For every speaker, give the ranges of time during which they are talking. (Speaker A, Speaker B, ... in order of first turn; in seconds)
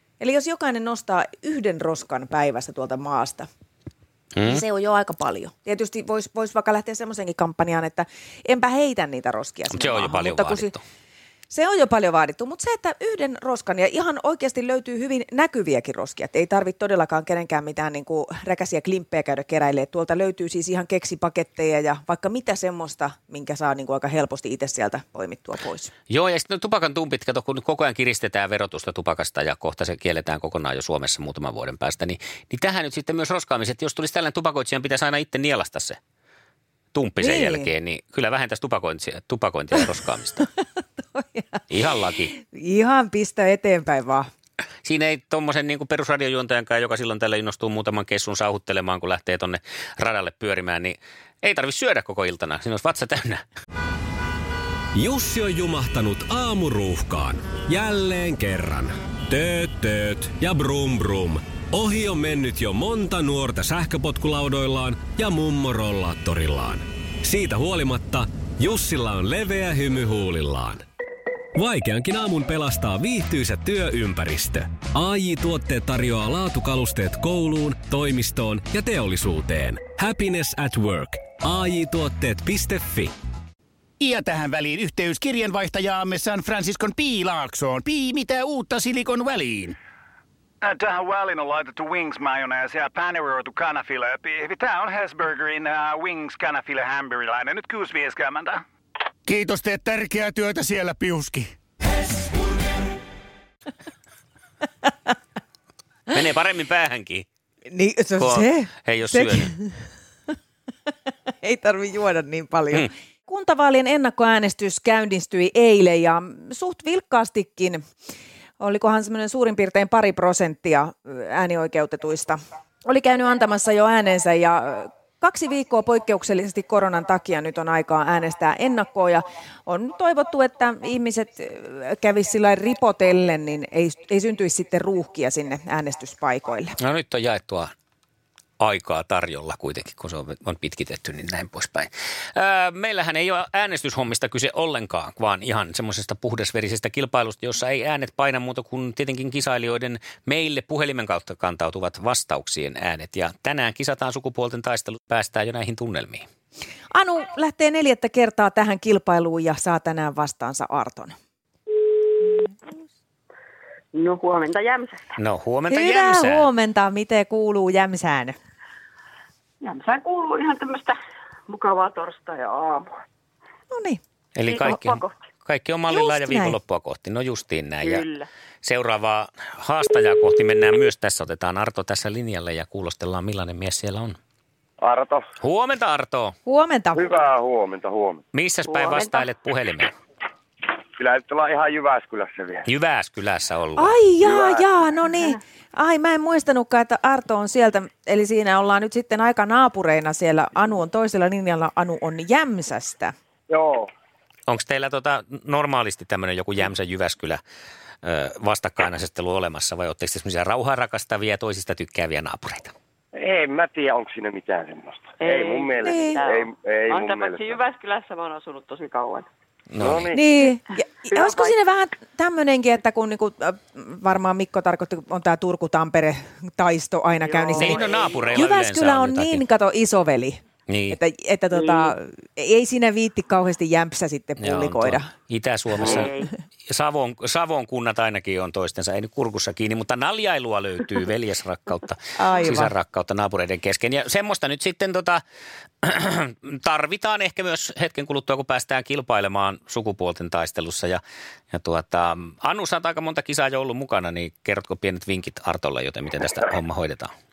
Speaker A: 0.2-3.5, 4.4-10.7, 11.5-25.9, 37.2-37.7, 41.0-41.8, 42.4-44.3, 107.7-109.8, 111.1-117.8, 118.6-136.8, 156.9-161.1, 165.7-168.4, 173.7-174.0, 175.9-176.6, 186.5-187.1, 193.8-203.1, 215.8-216.2, 220.1-235.1, 242.2-242.7
Speaker B: 4.3-4.6, 9.7-10.8, 26.1-36.0, 36.9-40.5, 41.7-42.3, 44.8-53.5, 106.1-107.3, 108.2-109.5, 136.8-137.7, 138.6-156.3, 165.2-166.5, 174.4-178.1, 178.6-184.2, 185.4-186.3, 188.3-189.9, 192.7-194.0, 204.5-207.4, 208.0-212.7, 219.7-220.1, 227.6-229.4, 230.7-231.0, 234.4-236.1, 236.7-245.2, 245.8-251.0, 251.5-257.1
Speaker C: 54.9-70.8, 71.5-83.1
Speaker D: 84.0-89.7, 99.3-101.5
Speaker E: 90.6-98.6
Speaker F: 163.9-165.2, 169.6-172.9, 174.5-175.2, 177.8-178.3, 188.7-189.3, 215.2-219.3, 221.1-221.5, 227.2-228.4, 231.5-231.9, 235.8-236.3
Speaker G: 184.8-185.3, 186.9-188.2, 191.0-192.7, 194.2-194.6, 203.5-203.9, 213.1-217.6, 219.8-220.2